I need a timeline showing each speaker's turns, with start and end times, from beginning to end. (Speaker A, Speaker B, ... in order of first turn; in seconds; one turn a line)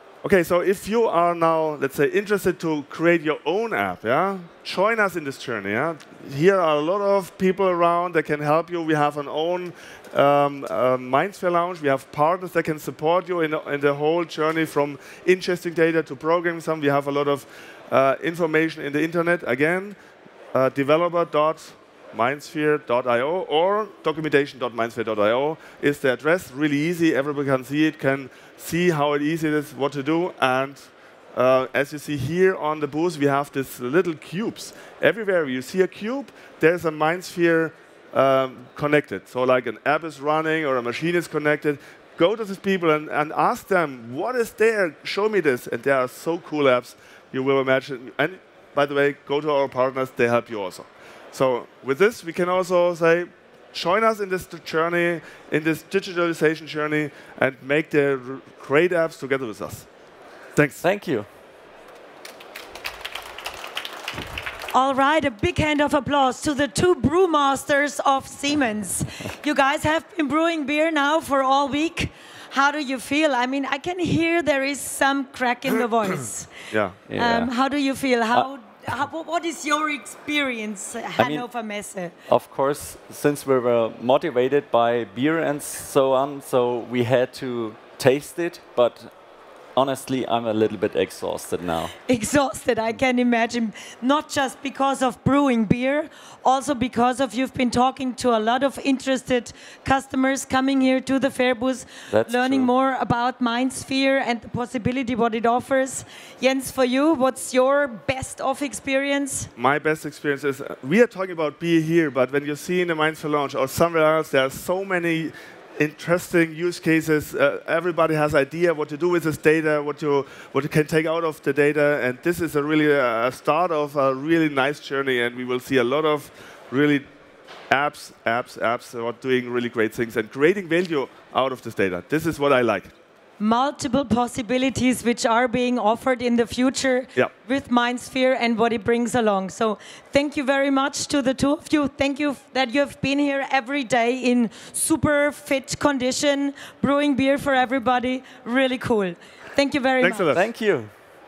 Speaker A: 0.2-20.0
Speaker A: 20.5-59.9
Speaker A: 60.6-60.8
Speaker B: 60.8-61.3
Speaker C: 64.7-76.5
Speaker A: 76.7-77.0
Speaker B: 77.1-77.5
Speaker C: 77.1-82.1
Speaker B: 81.2-81.5
Speaker B: 82.3-89.1
Speaker B: 89.8-91.9
Speaker C: 92.1-109.5
Speaker B: 102.1-102.7
Speaker A: 109.6-127.1
Speaker A: 127.7-132.9
Speaker C: 133.4-150.4
Speaker A: 150.0-150.4
Speaker B: 150.3-150.9